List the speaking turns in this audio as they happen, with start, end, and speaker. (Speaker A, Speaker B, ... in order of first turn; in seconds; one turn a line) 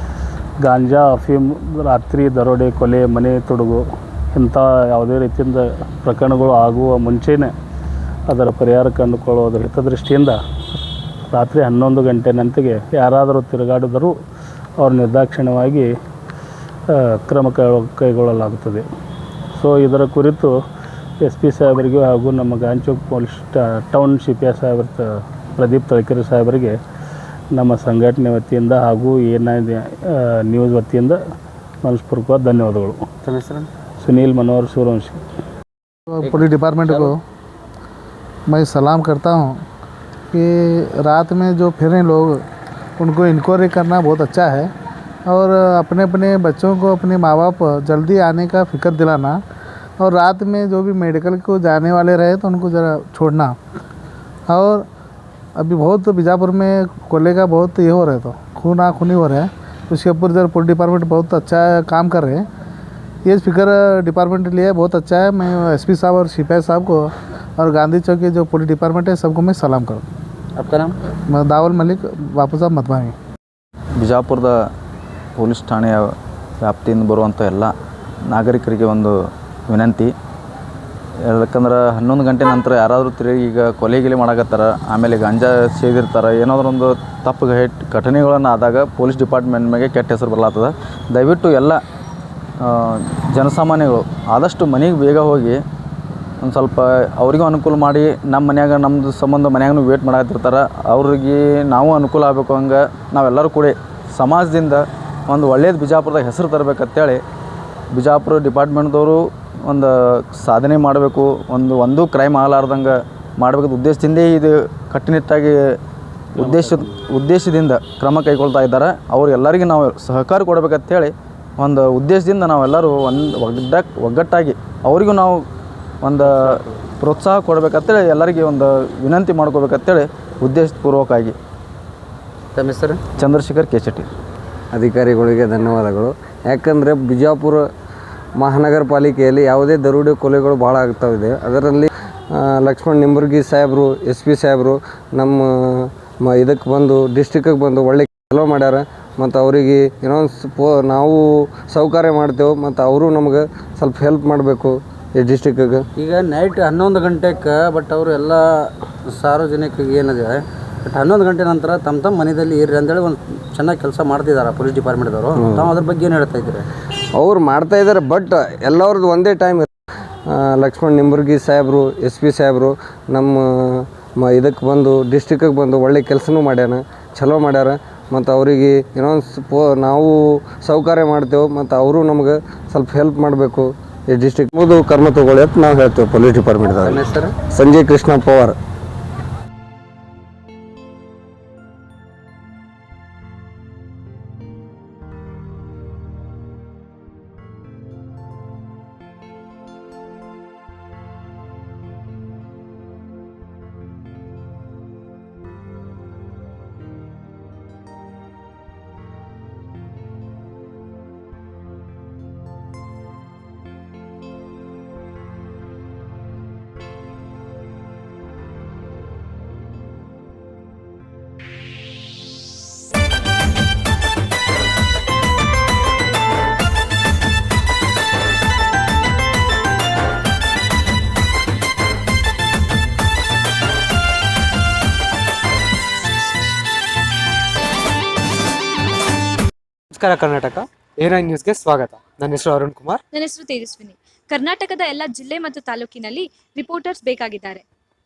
Speaker A: 0.6-7.5
Speaker A: 8.3-10.4
Speaker A: 11.3-14.1
Speaker A: 14.8-15.9
Speaker A: 16.9-18.8
Speaker A: 19.5-20.5
Speaker A: 21.2-26.8
Speaker A: 27.5-31.2
Speaker A: 31.8-33.0
Speaker A: 34.0-35.2
Speaker B: 36.1-37.2
Speaker B: 38.5-39.6
Speaker B: 40.3-42.4
Speaker B: 43.0-44.7
Speaker B: 45.3-49.4
Speaker B: 50.0-53.6
Speaker B: 54.5-54.9
Speaker B: 55.5-62.4
Speaker B: 63.2-70.0
Speaker C: 70.6-70.9
Speaker B: 71.3-73.1
Speaker D: 74.0-74.5
Speaker D: 75.4-77.7
Speaker D: 78.3-79.1
Speaker D: 79.7-80.1
Speaker D: 81.2-91.8
Speaker D: 92.6-95.6
Speaker D: 96.4-107.2
Speaker D: 107.9-115.6
Speaker D: 116.3-125.4
Speaker D: 126.0-131.3
Speaker C: 132.6-133.0
Speaker D: 133.2-134.1
Speaker E: 134.7-137.6
Speaker E: 138.4-155.8
Speaker C: 156.0-158.4
Speaker C: 159.1-166.6
Speaker E: 165.3-165.7
Speaker E: 167.2-169.7
Speaker E: 170.3-188.5
Speaker C: 186.8-187.3
Speaker F: 239.9-243.0
Speaker G: 243.1-247.6